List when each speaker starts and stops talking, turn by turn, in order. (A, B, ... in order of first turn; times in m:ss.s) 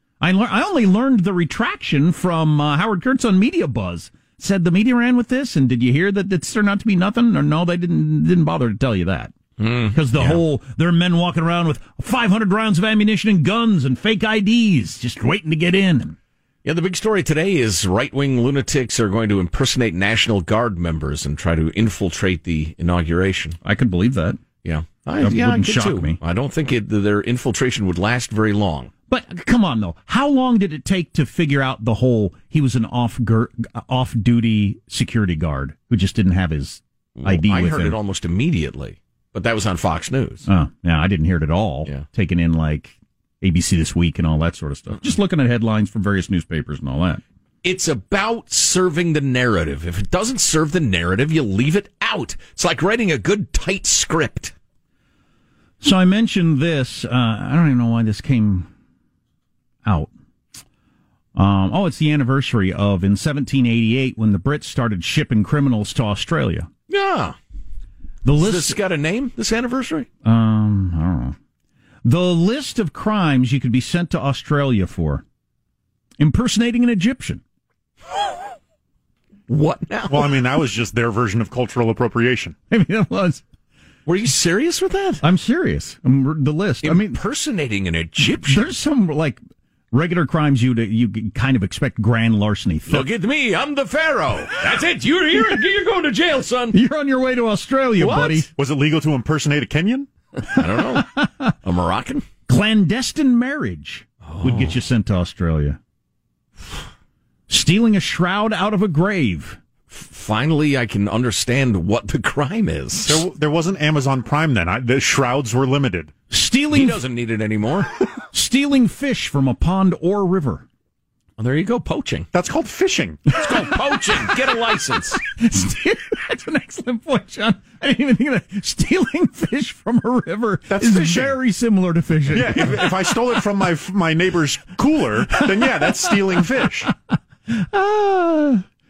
0:00.2-0:09.3 A
0:09.6-0:10.4 B
0:09.9-0:16.2 A
0:16.6-0:23.6 B
0:23.6-0:24.4 A
0:24.6-0:28.9 B
0:25.2-0:26.2 A
0:29.1-0:38.0 A
0:37.2-0:40.5 B
0:40.5-0:47.2 A
0:47.6-0:54.5 B
0:55.8-0:58.7 A
0:59.8-1:00.1 A
1:01.3-1:06.7 A
1:06.9-1:07.4 B
1:08.2-1:08.8 A
1:08.4-1:10.1 B
1:10.2-1:11.4 A
1:12.0-1:15.2 A
1:16.2-1:17.4 A
1:19.5-1:20.4 B
1:20.1-1:22.6 C
1:22.7-1:23.4 A
1:24.0-1:25.2 B
1:25.2-1:27.2 A
1:26.8-1:28.6 B
1:28.2-1:29.4 A
1:29.9-1:33.1 A
1:32.9-1:36.8 B
1:36.7-1:38.5 A
1:38.0-1:38.5 B
1:38.5-1:40.1 C
1:40.5-1:41.1 B
1:40.8-1:41.5 A
1:41.6-1:42.3 B
1:42.5-1:45.8 A
1:44.2-1:44.8 B
1:47.5-1:49.6 A
1:49.9-1:53.2 B
1:53.0-1:56.1 C
1:56.3-1:57.0 A
1:56.7-1:57.9 B
1:58.3-2:00.6 A
2:01.4-2:02.3 B
2:02.3-2:03.2 C
2:03.3-2:05.2 B
2:05.3-2:13.4 A
2:10.7-2:11.4 C
2:12.3-2:16.9 C
2:15.4-2:16.5 A
2:17.5-2:18.6 A